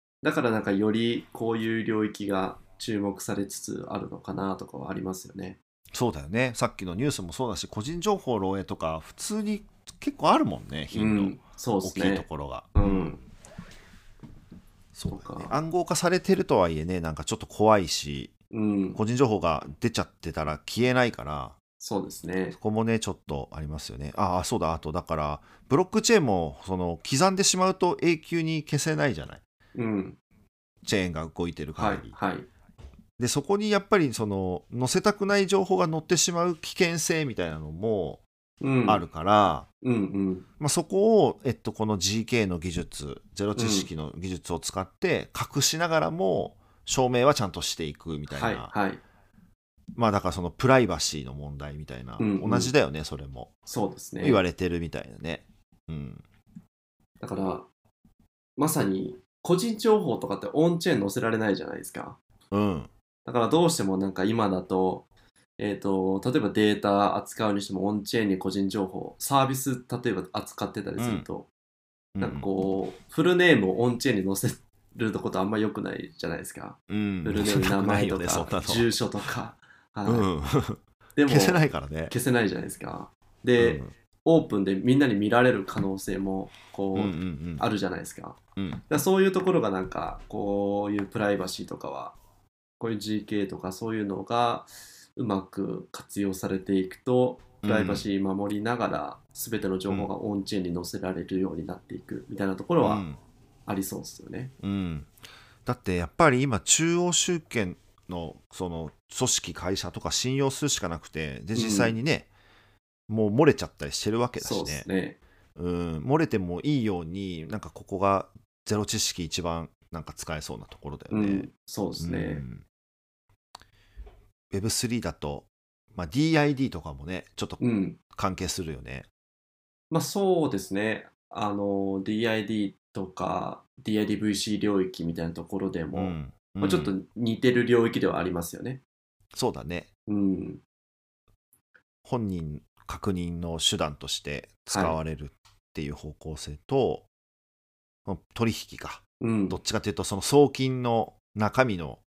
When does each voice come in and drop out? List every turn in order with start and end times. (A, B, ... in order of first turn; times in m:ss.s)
0:00.2-0:05.6 A
0:05.9-0:13.2 B
0:10.9-0:13.2 A
0:14.9-0:18.3 B
0:15.1-0:15.5 A
0:18.5-0:19.0 A
0:18.9-0:21.6 B
0:21.8-0:22.6 A
0:22.5-0:29.4 B
0:29.7-0:30.2 A
0:30.8-0:32.1 B
0:31.8-0:32.5 A
0:33.2-0:38.2 B
0:38.6-0:39.0 A
0:38.8-0:39.7 B
0:39.8-0:40.4 A
0:40.6-0:48.7 B
0:43.5-0:43.9 A
0:48.3-0:49.0 A
0:49.9-0:53.5 B
0:52.2-0:52.7 A
0:53.7-0:54.4 A
0:54.2-0:56.2 B
0:57.2-0:57.7 A
0:58.6-1:02.2 A
1:02.5-1:02.9 B
1:03.2-1:05.0 A
1:05.6-1:11.5 A
1:11.0-1:11.2 B
1:12.2-1:12.5 B
1:12.2-1:20.3 A
1:16.9-1:18.9 B
1:20.0-1:22.1 B
1:21.2-1:32.2 A
1:23.6-1:23.9 B
1:26.9-1:27.6 B
1:28.6-1:28.8 B
1:32.8-1:43.0 A
1:37.6-1:38.0 B
1:42.8-1:43.2 B
1:43.6-1:44.5 A
1:44.6-1:45.1 B
1:45.6-1:52.3 B
1:51.5-1:51.9 A
1:53.1-1:54.9 B
1:54.4-1:55.2 A
1:55.6-2:02.6 B
2:01.1-2:02.4 A
2:04.5-2:07.6 B
2:07.6-2:08.0 A
2:08.1-2:09.0 B
2:09.9-2:18.8 A
2:15.9-2:16.9 B
2:19.3-2:19.9 B
2:20.1-2:20.6 A
2:22.0-2:27.0 B
2:24.7-2:25.0 A
2:28.0-2:32.0 B
2:29.2-2:29.6 A